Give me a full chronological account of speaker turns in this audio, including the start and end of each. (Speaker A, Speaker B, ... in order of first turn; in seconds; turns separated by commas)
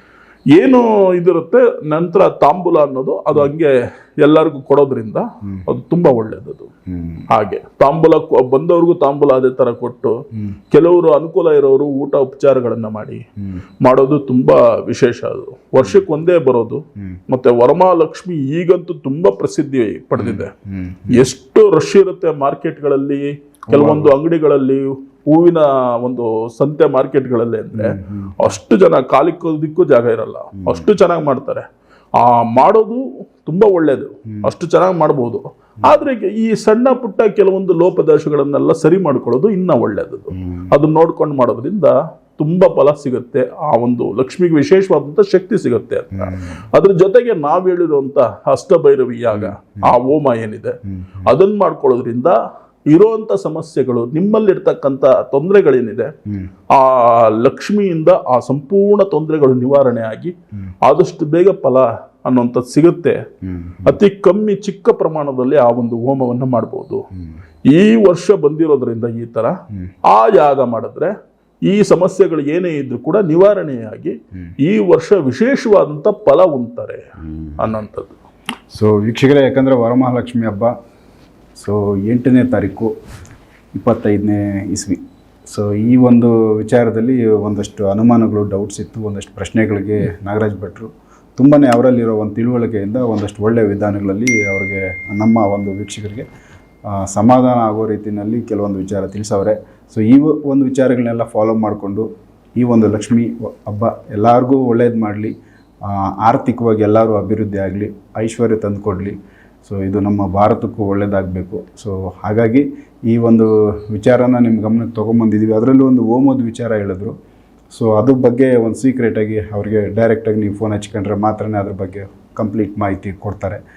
Speaker A: 0.5-6.7, Speaker B: 6.9-7.3, Speaker A: 7.3-10.2, Speaker A: 10.7-13.2, Speaker B: 13.4-13.7, Speaker A: 13.8-20.5, Speaker B: 20.2-21.3, Speaker A: 21.1-31.7, Speaker B: 23.7-24.1, Speaker B: 27.7-28.6, Speaker B: 30.6-30.9, Speaker A: 32.2-52.4, Speaker B: 40.3-40.7, Speaker B: 46.1-46.6, Speaker B: 49.3-50.0, Speaker B: 50.9-51.3, Speaker A: 52.9-56.1, Speaker A: 56.7-63.2, Speaker B: 63.4-64.0, Speaker A: 63.9-67.1, Speaker B: 67.1-67.4, Speaker A: 67.7-69.6, Speaker A: 70.1-71.1, Speaker A: 71.7-77.0, Speaker B: 77.2-77.7, Speaker A: 77.6-78.2, Speaker B: 78.7-80.7, Speaker B: 81.6-82.9, Speaker B: 83.7-96.3, Speaker B: 96.9-117.2, Speaker B: 117.7-123.6